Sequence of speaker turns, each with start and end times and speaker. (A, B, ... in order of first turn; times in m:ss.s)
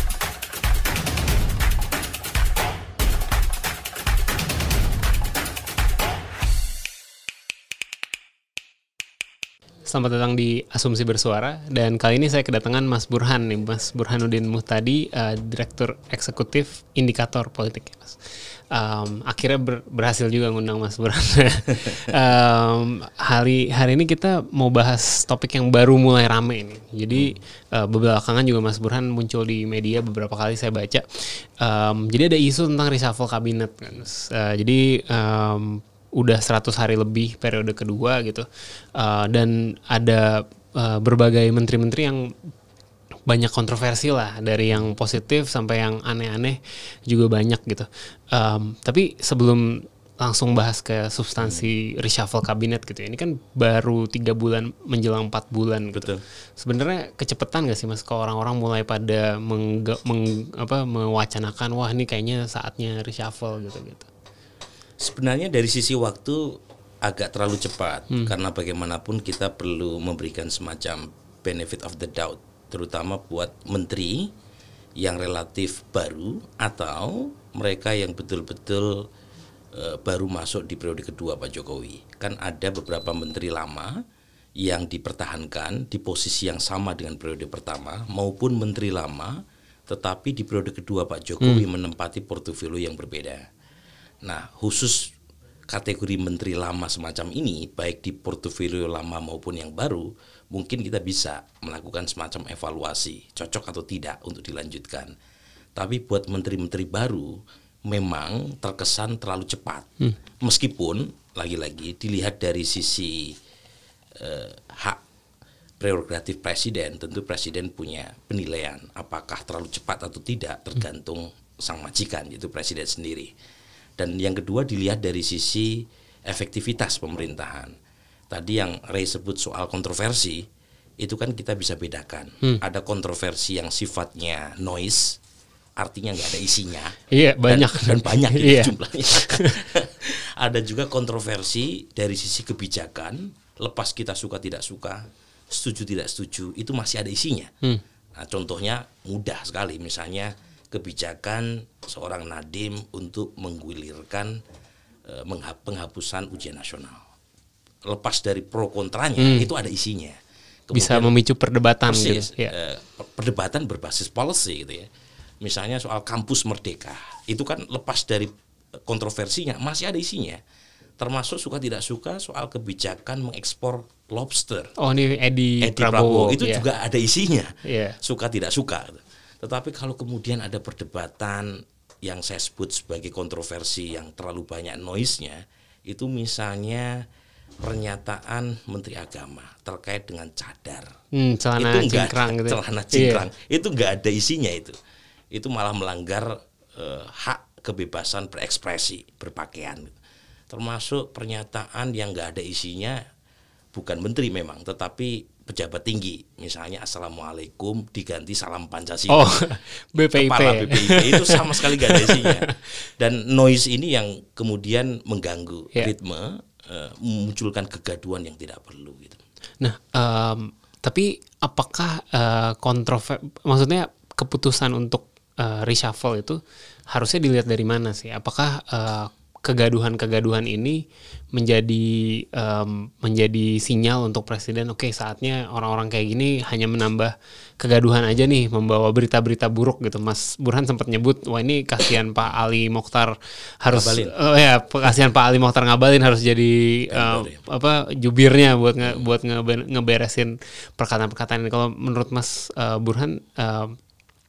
0:09.9-0:18.2 A
0:18.7-0:38.5 A
0:39.0-0:42.3 A
0:43.3-1:04.1 A
0:51.4-0:51.7 B
0:55.9-0:56.2 B
1:05.0-1:14.3 B
1:15.0-1:19.1 B
1:19.7-1:23.9 B
1:24.6-1:29.4 B
1:29.9-1:33.4 B
1:34.2-1:35.1 B
1:35.7-1:45.1 B
1:45.8-1:53.4 B
1:54.2-1:55.0 B
1:55.8-2:03.3 B
2:04.0-2:07.7 B
2:08.3-2:10.4 B
2:11.0-2:15.2 B
2:15.8-2:27.5 B
2:17.1-2:19.6 A
2:28.2-2:34.4 B
2:35.1-2:37.0 B
2:37.9-2:40.2 B
2:39.2-2:39.5 A
2:40.7-2:41.1 B
2:40.7-2:42.5 A
2:41.9-2:44.9 B
2:45.4-2:48.3 B
2:48.9-2:50.4 B
2:51.0-2:54.7 B
2:54.8-2:56.6 A
2:55.6-3:07.0 B
2:57.6-2:58.0 A
3:07.6-3:10.9 B
3:11.1-3:13.2 A
3:11.6-3:14.8 B
3:15.3-3:20.0 B
3:20.5-3:23.0 B
3:23.7-3:29.3 B
3:29.1-3:32.5 A
3:30.0-3:39.2 B
3:39.6-3:46.4 A
3:46.9-3:50.8 A
3:51.3-4:13.8 A
4:03.7-4:04.1 B
4:06.9-4:07.4 B